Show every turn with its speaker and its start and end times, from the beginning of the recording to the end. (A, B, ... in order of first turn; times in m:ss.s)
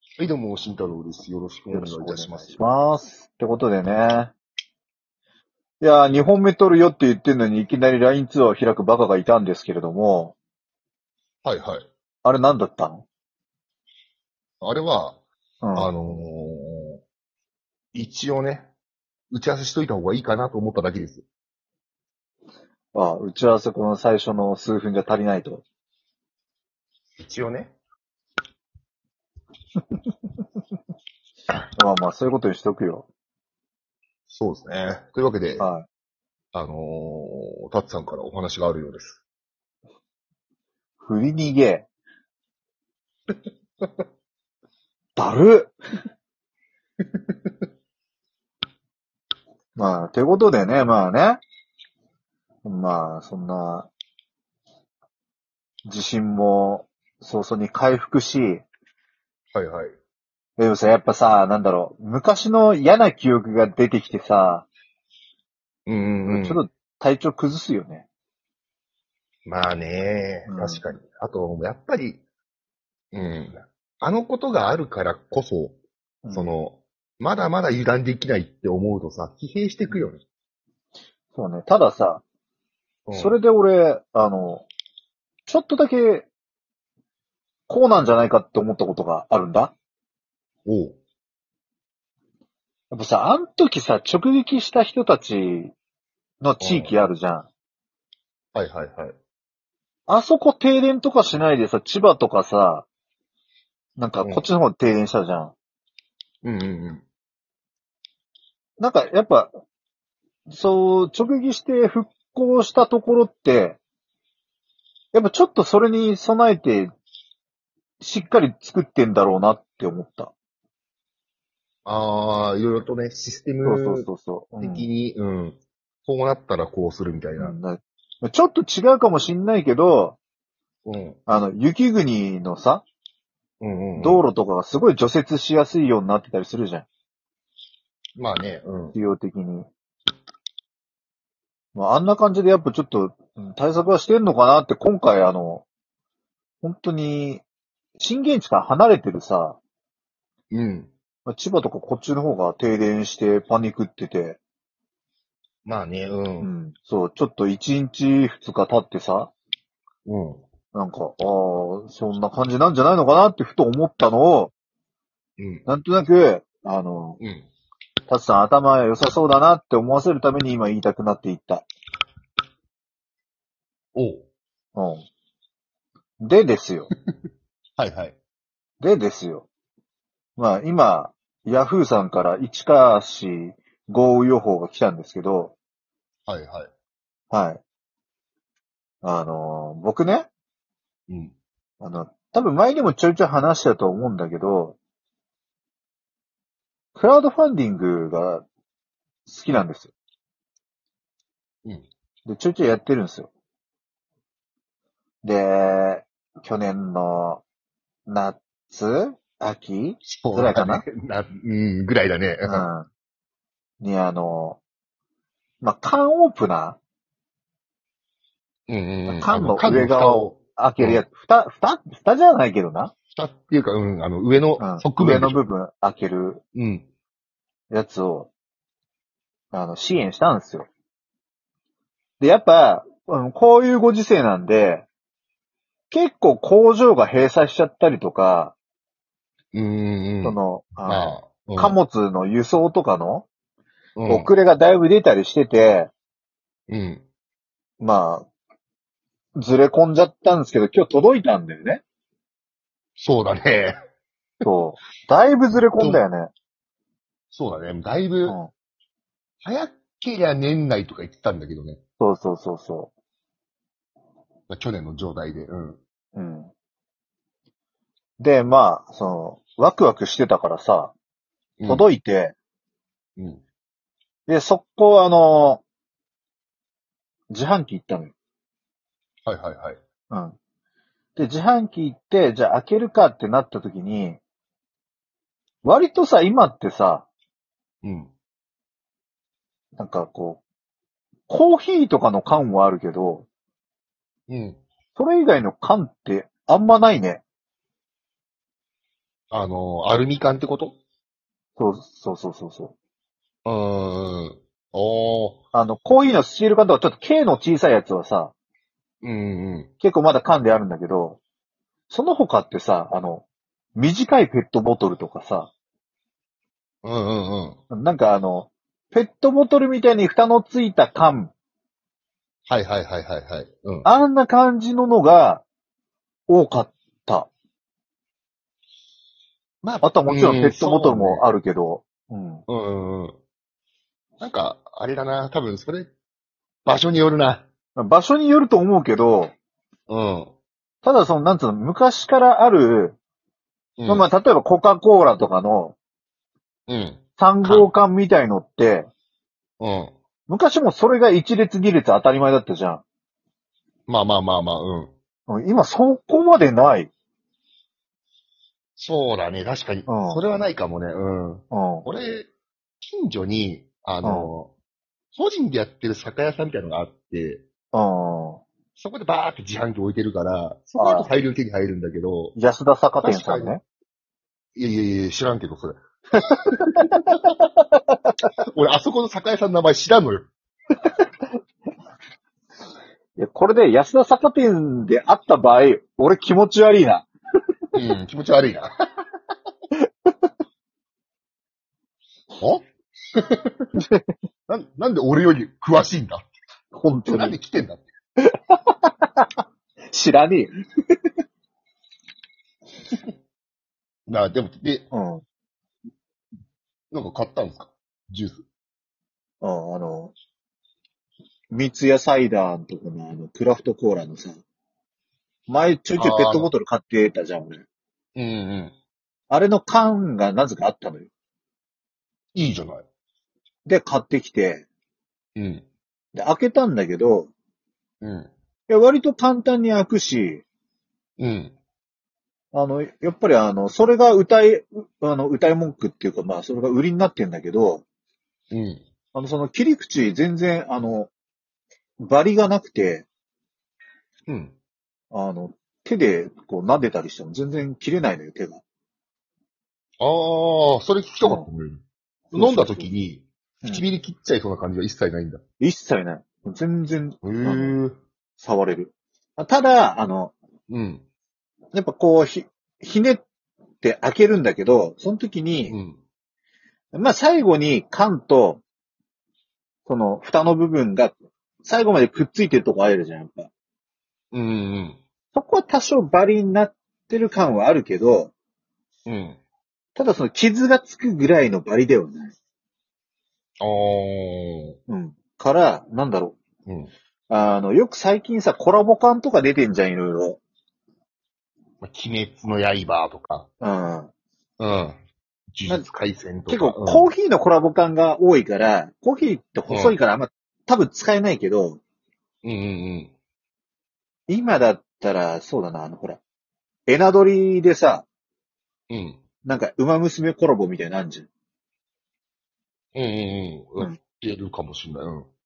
0:00.2-0:02.6 A
0:01.7-0:04.3 B
0:05.8-0:10.4 B
0:11.4-0:11.8 A
0:12.2-0:13.0 B
0:14.6-0:15.2 A
0:15.6-0:15.9 B
0:15.8-0:17.0 A
0:17.9-0:18.7 A
0:19.3-0:21.2 A
0:22.9-0:25.6 B
0:27.2-0:27.8 A
0:31.8-0:33.1 B
0:34.3-0:35.7 A
0:35.6-0:35.9 B
0:36.5-0:39.2 A
0:41.0-0:41.9 B
0:45.2-0:45.7 B
0:49.8-0:51.4 B
0:52.6-0:53.9 B
0:55.8-0:58.6 B
0:59.5-0:59.9 A
1:00.6-1:04.7 B
1:05.9-1:06.6 A
1:06.3-1:08.1 B
1:09.5-1:12.2 A
1:10.5-1:10.8 B
1:13.1-1:15.8 A
1:16.2-1:16.5 B
1:16.3-1:20.2 A
1:21.3-1:22.2 B
1:23.1-1:23.4 A
1:23.2-1:24.7 B
1:25.5-1:26.3 B
1:27.7-1:29.7 B
1:30.7-1:31.0 A
1:32.9-1:35.7 B
1:36.4-1:37.5 B
1:36.6-1:36.9 A
1:38.6-1:39.2 A
1:40.1-1:42.9 B
1:44.0-1:45.6 B
1:46.4-1:47.0 A
1:48.8-1:49.5 B
1:50.5-1:53.8 B
1:55.1-1:56.9 B
1:58.0-2:00.3 B
2:01.8-2:04.1 A
2:03.6-2:04.9 B
2:04.6-2:07.6 A
2:07.4-2:10.2 B
2:10.8-2:11.2 A
2:11.3-2:12.8 B
2:13.6-2:14.2 A
2:14.0-2:16.9 B
2:18.2-2:19.0 A
2:18.9-2:19.7 B
2:21.8-2:25.6 B
2:26.6-2:27.4 B
2:28.0-2:29.6 B
2:30.5-2:30.9 A
2:31.3-2:34.4 B
2:35.6-2:36.5 A
2:36.4-2:39.3 B
2:40.1-2:40.4 A
2:40.7-2:44.5 B
2:45.4-2:45.7 A
2:45.7-2:47.2 B
2:47.2-2:47.5 A
2:48.1-2:51.7 B
2:54.0-2:54.2 A
2:54.8-2:55.1 B
2:56.2-2:56.9 B
2:57.8-2:58.2 A
2:58.8-2:59.5 B
3:00.4-3:05.6 B
3:06.3-3:06.7 A
3:07.3-3:07.6 B
3:09.0-3:10.3 B
3:11.1-3:11.3 A
3:11.8-3:14.8 B
3:17.0-3:18.4 B
3:19.3-3:19.9 B
3:22.3-3:23.3 B
3:25.2-3:27.4 B
3:28.1-3:30.8 B
3:30.1-3:32.7 A
3:32.4-3:32.9 B
3:33.8-3:34.6 B
3:35.6-3:36.8 B
3:38.7-3:41.0 A
3:39.1-3:42.9 B
3:43.1-3:45.4 A
3:44.6-3:46.4 B
3:46.6-3:46.9 A
3:47.7-3:48.3 B
3:49.5-3:50.7 B
3:52.2-3:54.9 B
3:55.9-3:58.6 B
3:59.5-4:01.8 A
4:00.2-4:03.3 B
4:04.0-4:04.3 A
4:04.1-4:05.9 B
4:06.7-4:07.0 A
4:07.8-4:08.3 B
4:09.4-4:11.8 B
4:13.0-4:13.8 A
4:14.4-4:16.3 B
4:17.3-4:18.4 A
4:19.4-4:21.8 A
4:22.0-4:22.9 B
4:24.5-4:25.8 A
4:26.2-4:26.5 B
4:28.2-4:30.9 B
4:31.6-4:31.8 A
4:31.7-4:32.4 B
4:33.2-4:33.4 A
4:34.3-4:35.6 B
4:37.3-4:38.1 B
4:39.3-4:39.8 A
4:40.1-4:40.4 B
4:41.2-4:44.2 B
4:45.6-4:47.1 B
4:47.8-4:48.1 A
4:49.8-4:50.4 B
4:51.3-4:53.3 B
4:54.3-4:54.6 A
4:55.0-4:57.2 B
4:59.3-5:00.8 A
5:01.6-5:02.7 B
5:03.4-5:05.4 A
5:05.5-5:08.3 B
5:09.0-5:09.7 A
5:09.8-5:11.2 B
5:11.9-5:13.2 B
5:13.8-5:15.5 B
5:16.8-5:17.6 A
5:17.7-5:21.3 B
5:22.5-5:23.9 A
5:23.8-5:25.4 B
5:26.3-5:27.3 B
5:29.6-5:31.2 A
5:29.8-5:32.4 B
5:32.5-5:33.2 A
5:34.2-5:35.9 A
5:36.6-5:37.5 A
5:37.8-5:39.3 B
5:39.9-5:40.3 A
5:40.8-5:43.0 B
5:43.8-5:44.0 A
5:43.9-5:45.8 B
5:46.7-5:47.7 A
5:47.2-5:48.9 B
5:49.6-5:49.9 A
5:50.3-5:52.8 B
5:53.9-5:54.9 A
5:55.3-5:56.9 B
5:58.8-6:02.3 A
5:59.9-6:00.2 B
6:01.5-6:01.9 B
6:02.8-6:04.5 A
6:04.0-6:04.3 B
6:05.1-6:07.4 A
6:07.7-6:08.4 B
6:08.8-6:12.4 A
6:10.8-6:11.1 B
6:12.4-6:13.6 B
6:13.0-6:13.6 A
6:14.6-6:17.2 A
6:16.6-6:17.9 B
6:18.4-6:20.3 A
6:23.2-6:27.1 B
6:27.7-6:28.7 A
6:29.8-6:30.1 B
6:32.4-6:33.6 A
6:34.5-6:36.3 A
6:36.7-6:37.4 B
6:37.1-6:37.9 A
6:38.2-6:39.3 B
6:39.9-6:40.6 B
6:44.1-6:44.9 A
6:44.9-6:45.2 B
6:46.9-6:48.4 A
6:49.4-6:50.1 B
6:51.5-6:54.4 B
6:55.5-6:57.6 B
6:56.0-6:56.5 A
6:58.2-6:58.8 A
6:59.3-7:01.1 B
7:02.3-7:02.8 A
7:03.7-7:04.6 B
7:05.4-7:05.6 A
7:06.2-7:07.3 B
7:08.0-7:08.3 A
7:08.7-7:10.4 B
7:11.2-7:11.6 A
7:12.5-7:17.8 B
7:18.5-7:18.8 A
7:19.1-7:21.1 B
7:22.0-7:23.1 B
7:24.3-7:24.5 A
7:25.1-7:28.6 B
7:30.0-7:35.4 A
7:32.4-7:32.9 B
7:35.6-7:37.8 B
7:37.2-7:38.0 A
7:38.4-7:40.3 B
7:40.7-7:41.0 A
7:41.7-7:43.2 B
7:43.8-7:45.8 B
7:45.7-7:46.0 A
7:46.9-7:48.6 B
7:49.9-7:53.5 B
7:54.3-7:55.0 A
7:55.3-7:58.3 B
7:59.1-7:59.4 A
8:00.0-8:02.4 B
8:03.6-8:04.8 A
8:04.9-8:06.4 B
8:06.7-8:06.9 A
8:07.3-8:10.4 B
8:11.8-8:13.5 A
8:13.6-8:14.1 B
8:14.6-8:15.0 A
8:15.5-8:17.1 A
8:16.5-8:21.8 B
8:19.7-8:20.0 A
8:22.4-8:23.1 A
8:24.3-8:26.2 B
8:26.9-8:28.1 B
8:28.9-8:29.2 A
8:29.4-8:31.3 B
8:33.0-8:35.3 A